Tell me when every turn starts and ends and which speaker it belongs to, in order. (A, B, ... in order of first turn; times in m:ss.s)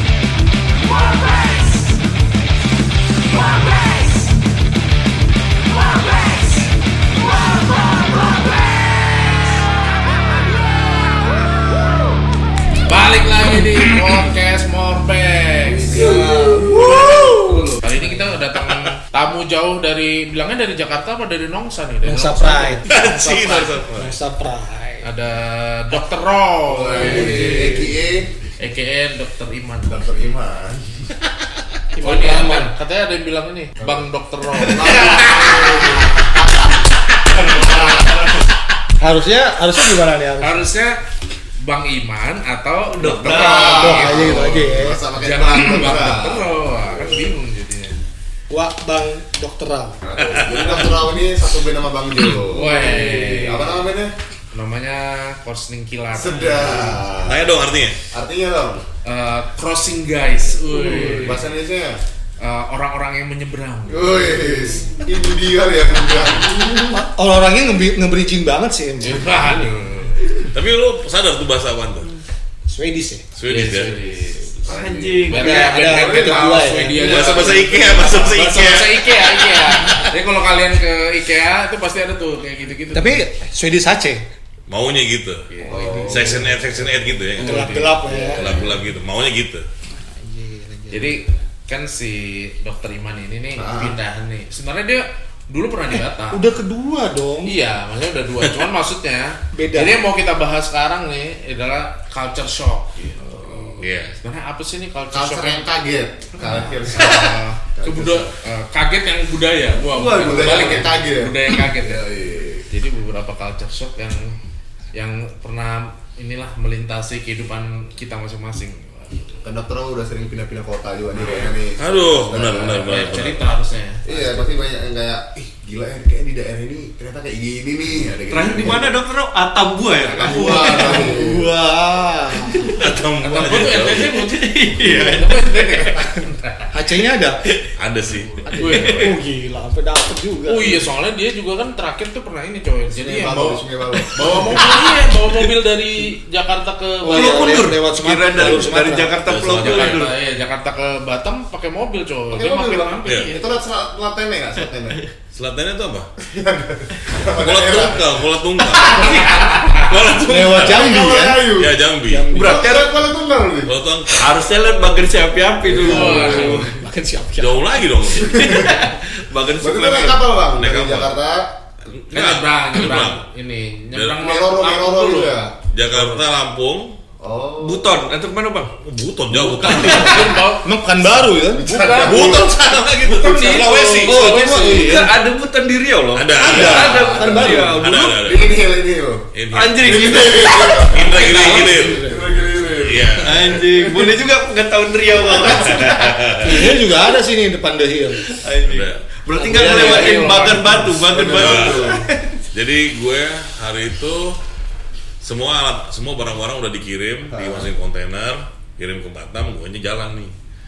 0:00.9-0:02.0 A
0:03.4-0:04.3 A
0:05.8-0:06.7 A
0:07.3-0:08.4 A
0:12.8-0:16.2 A
0:15.7-0:17.8 B
0:15.9-0:17.8 C
0:17.8-0:22.8 A
0:22.0-0:25.1 C
0:22.9-0:24.1 D
0:25.0-0:27.8 A
0:26.6-0:28.3 B
0:27.0-0:27.9 C
0:28.6-0:30.0 A
0:29.9-0:31.0 B
0:32.0-0:35.8 A
0:32.0-0:32.7 C
0:34.7-0:36.1 E
0:34.7-0:36.7 B
0:37.4-0:38.2 B
0:39.0-0:40.6 C
0:40.4-0:41.0 A
0:41.6-0:48.0 A
0:43.0-0:44.0 E
0:43.2-0:47.3 B
0:43.2-0:45.0 C
0:48.5-0:50.0 C
0:50.0-0:54.1 B
0:50.2-0:50.9 D
0:52.4-0:53.8 A
0:54.5-0:57.0 A
0:56.1-0:57.4 B
0:57.2-0:58.0 D
0:58.1-0:58.8 B
0:59.0-1:01.5 A
1:00.8-1:02.0 B
1:02.4-1:04.9 A
1:03.9-1:07.0 B
1:06.5-1:09.4 C
1:09.0-1:10.3 A
1:09.4-1:09.7 B
1:10.5-1:12.1 D
1:12.7-1:13.2 C
1:13.3-1:14.0 D
1:13.5-1:14.7 A
1:14.6-1:16.5 B
1:14.6-1:15.6 E
1:15.3-1:23.2 A
1:15.3-1:17.1 C
1:17.0-1:17.5 E
1:17.0-1:19.5 D
1:19.7-1:20.1 C
1:22.9-1:24.2 C
1:24.7-1:27.8 D
1:25.5-1:26.5 A
1:25.6-1:26.5 B
1:25.8-1:26.3 C
1:27.3-1:28.6 A
1:27.4-1:28.5 C
1:28.0-1:28.7 B
1:28.3-1:29.6 D
1:30.0-1:31.2 C
1:30.9-1:36.4 A
1:33.6-1:33.9 B
1:36.3-1:37.5 C
1:37.4-1:45.6 A
1:39.5-1:40.0 C
1:43.0-1:43.8 B
1:43.8-1:44.1 D
1:45.1-1:48.3 B
1:46.9-1:52.1 A
1:49.9-1:52.6 B
1:50.2-1:50.8 E
1:52.7-1:54.4 A
1:54.9-1:59.4 A
1:59.4-2:03.1 B
2:01.8-2:03.4 D
2:02.8-2:04.4 A
2:04.0-2:09.0 B
2:08.3-2:11.2 E
2:10.0-2:11.4 B
2:10.2-2:12.7 C
2:12.7-2:14.1 D
2:13.2-2:16.1 A
2:13.6-2:16.1 E
2:16.7-2:17.4 C
2:17.8-2:18.4 D
2:18.4-2:19.2 A
2:18.5-2:20.8 C
2:18.6-2:19.1 E
2:20.5-2:23.6 A
2:22.9-2:24.7 B
2:24.1-2:27.6 A
2:24.2-2:24.7 E
2:27.0-2:29.1 C
2:27.1-2:30.1 E
2:28.4-2:28.7 D
2:29.2-2:30.1 D
2:29.6-2:33.6 A
2:32.3-2:35.0 B
2:33.0-2:33.3 D
2:35.3-2:36.1 D
2:36.2-2:38.2 B
2:37.3-2:42.3 D
2:38.8-2:39.8 B
2:38.9-2:39.2 E
2:40.2-2:41.5 C
2:40.5-2:41.8 B
2:42.0-2:42.7 C
2:42.3-2:43.0 E
2:42.4-2:43.7 B
2:43.6-2:44.3 D
2:44.2-2:46.7 E
2:45.7-2:46.7 B
2:45.8-2:48.0 C
2:45.8-2:46.7 A
2:47.4-2:48.7 D
2:48.1-2:50.2 E
2:48.3-2:48.8 B
2:49.6-2:51.5 B
2:50.5-2:51.1 D
2:51.9-2:53.2 D
2:52.1-2:55.4 A
2:53.9-2:54.2 D
2:54.1-2:55.6 B
2:55.6-2:57.0 D
2:57.2-2:57.9 B
2:57.6-2:58.7 E
2:58.8-3:00.2 D
2:59.3-3:00.7 A
2:59.6-3:01.7 C
2:59.8-3:00.1 E
3:01.5-3:02.6 B
3:01.6-3:02.5 A
3:02.0-3:04.3 D
3:03.0-3:05.1 A
3:04.0-3:08.2 E
3:04.0-3:05.1 C
3:06.1-3:08.6 D
3:06.4-3:07.8 C
3:06.8-3:07.4 B
3:08.2-3:09.3 B
3:09.3-3:12.0 D
3:09.5-3:10.9 E
3:09.8-3:11.5 B
3:11.1-3:12.5 C
3:12.0-3:13.9 B
3:12.8-3:13.6 D
3:13.2-3:16.1 E
3:15.4-3:16.6 D
3:16.4-3:18.3 C
3:18.3-3:22.4 E
3:18.6-3:19.0 D
3:19.4-3:20.9 C
3:19.5-3:20.8 A
3:21.0-3:22.0 B
3:21.2-3:21.9 D
3:22.5-3:24.4 D
3:25.2-3:30.3 D
3:27.3-3:27.7 B